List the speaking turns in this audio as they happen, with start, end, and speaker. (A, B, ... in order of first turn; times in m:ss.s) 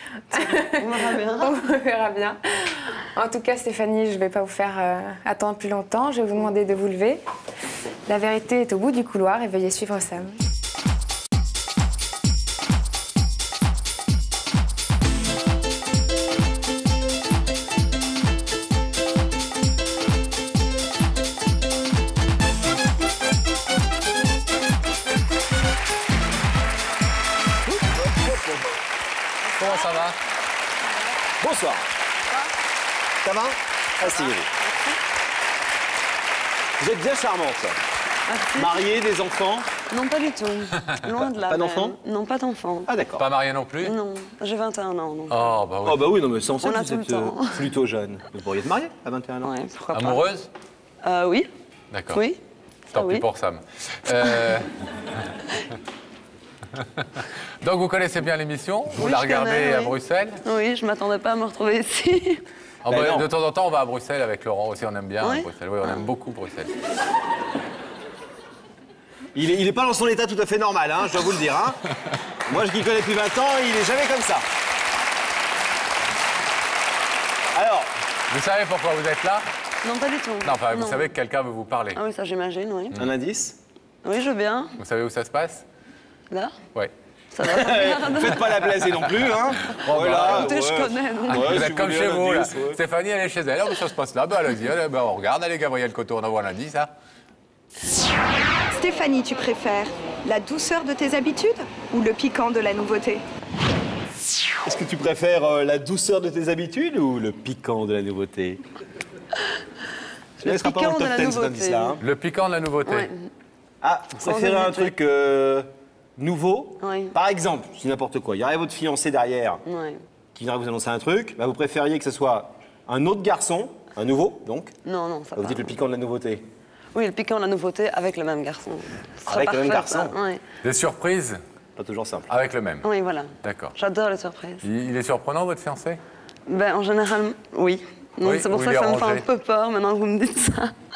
0:00.3-0:07.2 A
0:00.4-0:01.6 B
0:08.1-0:10.4 A
0:27.7-0:28.7 C
0:29.5-0:30.0 B
0:29.6-0:30.2 D
0:31.4-0:31.9 C
0:33.2-0:34.5 C
0:34.0-0:35.0 B
0:36.8-0:37.8 C
0:38.3-0:38.8 B
0:38.6-0:39.7 C
0:39.9-0:42.9 B
0:41.5-0:42.0 C
0:42.9-0:43.2 C
0:43.1-0:43.9 D
0:43.8-0:45.5 B
0:45.3-0:46.1 D
0:45.8-0:49.5 C
0:46.6-0:47.7 B
0:49.4-0:50.3 B
0:49.9-0:50.5 D
0:51.0-0:51.5 B
0:51.9-0:52.2 D
0:52.1-0:52.4 B
0:52.9-0:53.2 B
0:52.9-0:54.7 D
0:57.0-1:00.4 D
0:59.0-1:02.4 B
1:02.8-1:06.7 D
1:02.8-1:03.3 C
1:05.2-1:05.5 B
1:09.3-1:11.8 C
1:12.4-1:14.4 C
1:17.5-1:17.9 C
1:18.3-1:19.5 D
1:19.8-1:21.1 B
1:20.4-1:22.0 D
1:21.9-1:23.0 B
1:23.0-1:23.6 C
1:24.0-1:24.8 B
1:24.8-1:25.6 D
1:26.3-1:26.6 B
1:27.3-1:28.4 B
1:27.4-1:32.8 C
1:28.9-1:29.2 D
1:29.8-1:30.6 D
1:30.0-1:31.7 B
1:31.3-1:36.9 D
1:38.7-1:43.2 E
1:44.6-1:48.6 C
1:50.4-1:52.0 C
1:50.4-1:52.0 B
1:52.0-1:53.1 D
1:52.8-1:53.3 B
1:53.8-1:59.6 C
1:54.2-1:54.9 B
1:56.8-1:57.1 B
1:59.6-2:00.0 B
2:00.3-2:04.7 C
2:04.8-2:05.7 B
2:05.3-2:06.4 C
2:06.9-2:10.4 B
2:09.2-2:10.1 C
2:10.6-2:11.4 D
2:11.8-2:12.3 C
2:12.3-2:12.8 D
2:12.8-2:14.7 B
2:13.4-2:13.7 D
2:14.6-2:16.0 D
2:16.4-2:20.7 B
2:18.2-2:19.2 D